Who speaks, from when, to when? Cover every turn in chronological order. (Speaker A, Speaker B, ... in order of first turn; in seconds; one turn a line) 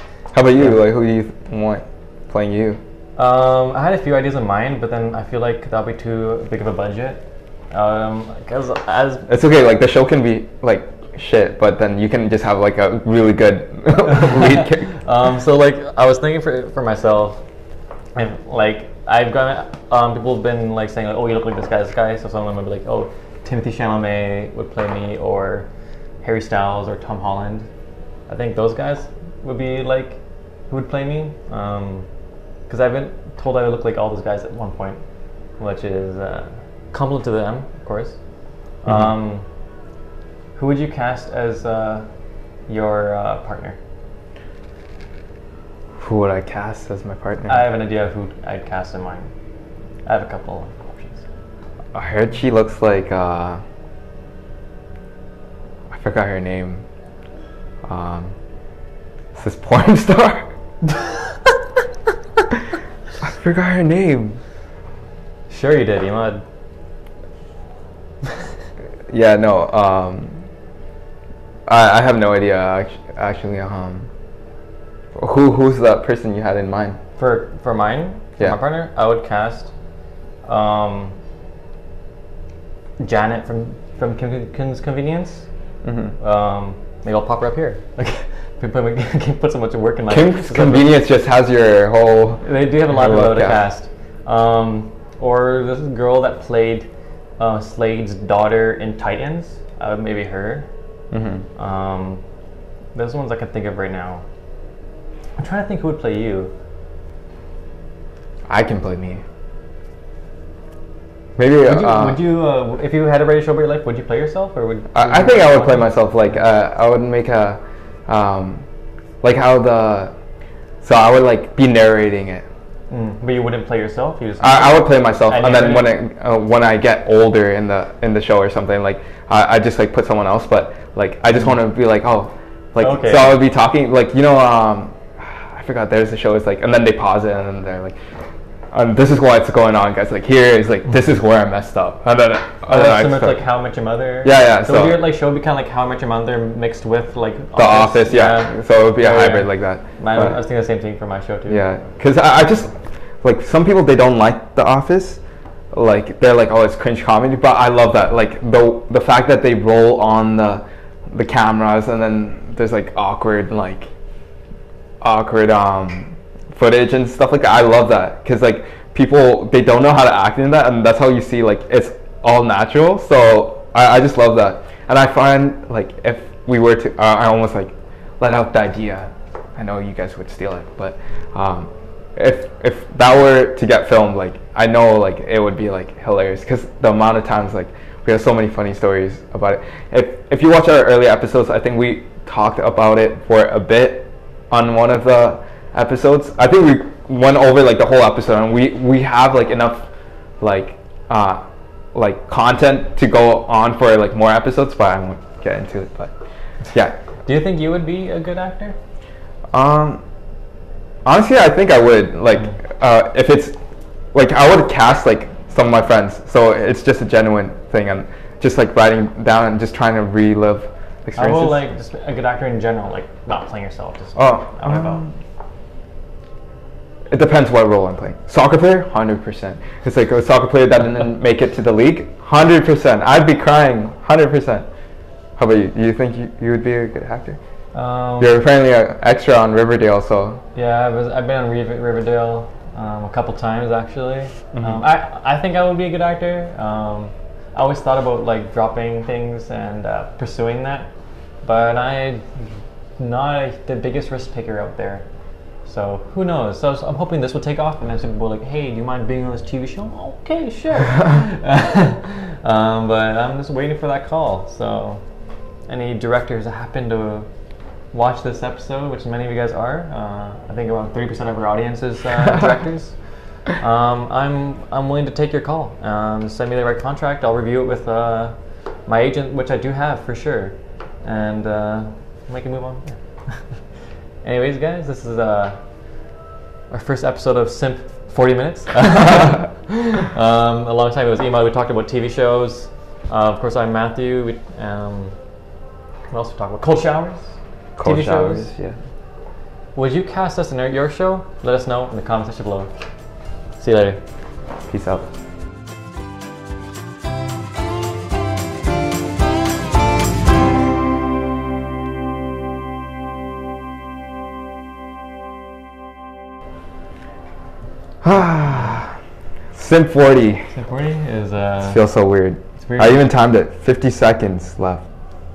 Speaker A: 0.3-2.8
Speaker B: 3.2-9.3
Speaker A: 9.3-14.9
Speaker B: 14.1-17.4
Speaker B: 18.1-25.7
Speaker B: 26.2-27.7
Speaker B: 28.3-32.1
Speaker B: 32.7-35.0
Speaker B: 35.6-38.2
Speaker B: 38.8-39.5
Speaker A: 38.9-39.1
Speaker B: 40.5-42.1
Speaker B: 42.7-43.8
Speaker A: 46.0-47.7
Speaker B: 47.5-49.3
Speaker B: 50.1-51.3
Speaker A: 51.9-53.6
Speaker A: 55.9-56.8
Speaker A: 57.9-58.4
Speaker A: 59.4-60.5
Speaker A: 63.2-64.4
Speaker B: 65.5-66.4
Speaker A: 69.1-70.4
Speaker A: 71.7-74.1
Speaker A: 75.2-77.0
Speaker B: 77.2-79.7
Speaker B: 80.5-81.2
Speaker B: 83.0-85.5
Speaker A: 85.8-86.1
Speaker B: 86.2-90.9
Speaker A: 90.1-93.6
Speaker B: 92.4-96.9
Speaker B: 97.4-100.7
Speaker A: 101.1-101.5
Speaker B: 101.6-102.2
Speaker B: 103.0-104.2
Speaker B: 105.4-106.5
Speaker A: 108.5-109.2
Speaker A: 111.4-112.2
Speaker B: 111.6-115.9
Speaker A: 114.9-118.6
Speaker A: 119.2-120.1
Speaker A: 120.8-122.5
Speaker B: 122.9-126.0
Speaker A: 124.4-138.0
Speaker B: 132.8-133.4
Speaker A: 138.7-143.4
Speaker B: 142.7-151.6
Speaker A: 144.2-145.0
Speaker A: 147.6-150.4
Speaker A: 151.5-155.2
Speaker A: 155.7-163.9
Speaker A: 165.0-199.9
Speaker A: 200.4-206.1
Speaker B: 207.2-208.8
Speaker A: 209.5-210.0
Speaker A: 211.1-213.6
Speaker A: 214.1-221.6
Speaker B: 221.2-225.1
Speaker A: 224.2-225.1
Speaker A: 227.1-234.7
Speaker A: 235.4-237.4
Speaker B: 237.7-238.4
Speaker A: 238.2-240.4
Speaker B: 240.6-250.9
Speaker A: 244.5-244.8
Speaker B: 251.4-252.4
Speaker B: 253.0-255.0
Speaker B: 255.7-265.0
Speaker B: 265.7-267.3
Speaker B: 267.9-278.4
Speaker B: 278.9-283.5
Speaker B: 284.2-285.6
Speaker B: 286.7-295.2
Speaker B: 296.1-298.5
Speaker A: 297.8-298.8
Speaker B: 299.8-302.7
Speaker B: 303.6-304.0
Speaker A: 304.7-305.1
Speaker A: 318.0-318.9
Speaker A: 319.5-320.5
Speaker B: 320.5-321.9
Speaker A: 321.6-324.9
Speaker B: 322.6-323.1